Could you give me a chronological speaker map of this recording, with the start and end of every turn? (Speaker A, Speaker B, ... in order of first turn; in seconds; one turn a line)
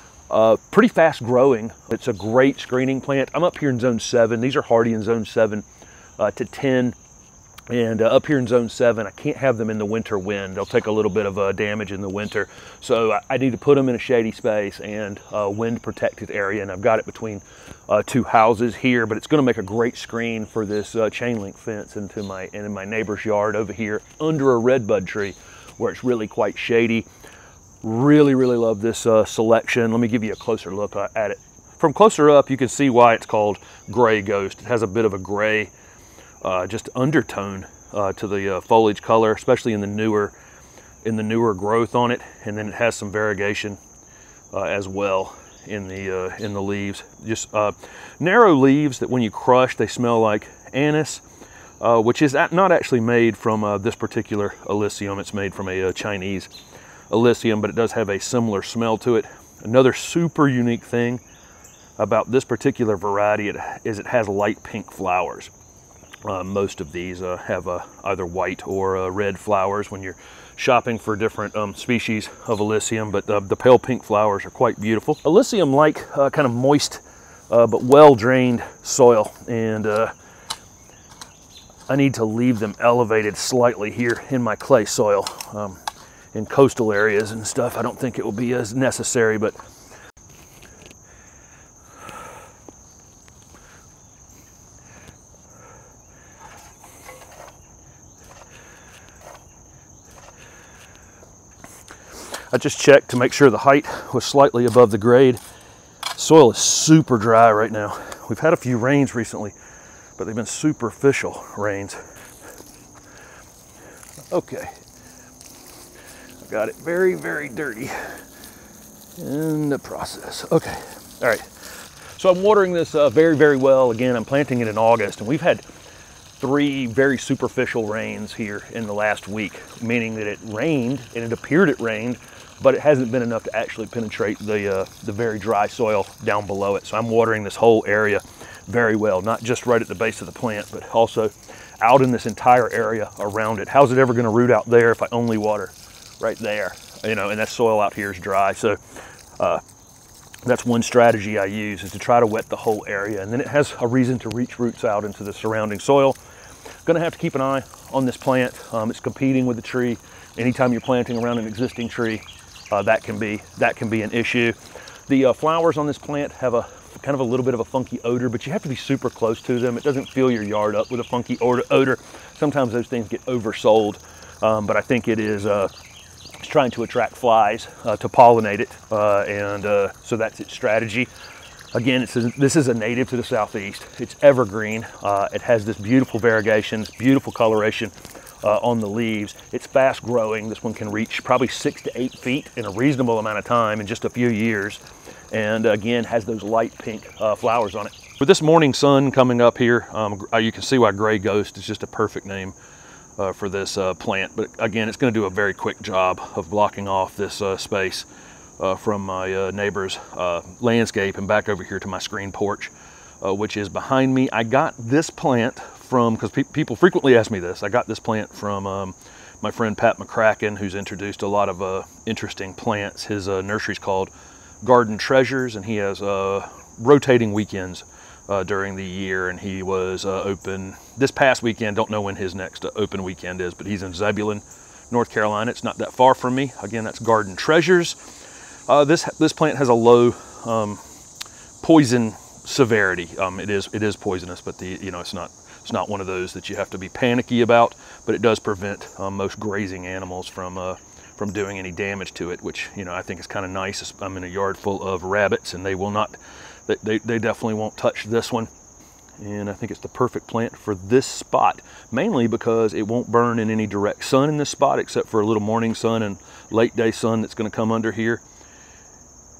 Speaker A: 0.3-5.7
Speaker A: 6.2-7.0
Speaker A: 7.7-27.1
Speaker A: 27.8-35.7
Speaker A: 36.4-40.3
Speaker A: 41.0-43.8
Speaker A: 44.5-51.2
Speaker A: 51.8-56.5
Speaker A: 57.1-61.2
Speaker A: 62.0-65.5
Speaker A: 66.2-80.1
Speaker A: 81.9-85.8
Speaker A: 86.3-89.5
Speaker A: 102.5-105.4
Speaker A: 106.1-109.5
Speaker A: 110.2-112.0
Speaker A: 114.3-114.8
Speaker A: 116.4-118.2
Speaker A: 119.2-121.5
Speaker A: 122.1-125.6
Speaker A: 126.4-148.8
Speaker A: 149.4-149.6
Speaker A: 150.4-156.2
Speaker A: 156.8-164.6
Speaker A: 165.1-175.7
Speaker A: 176.4-181.1
Speaker A: 181.7-202.6
Speaker A: 203.2-208.1
Speaker A: 208.6-224.1
Speaker A: 224.6-238.0
Speaker A: 238.7-240.8
Speaker A: 241.6-258.5
Speaker A: 259.2-268.2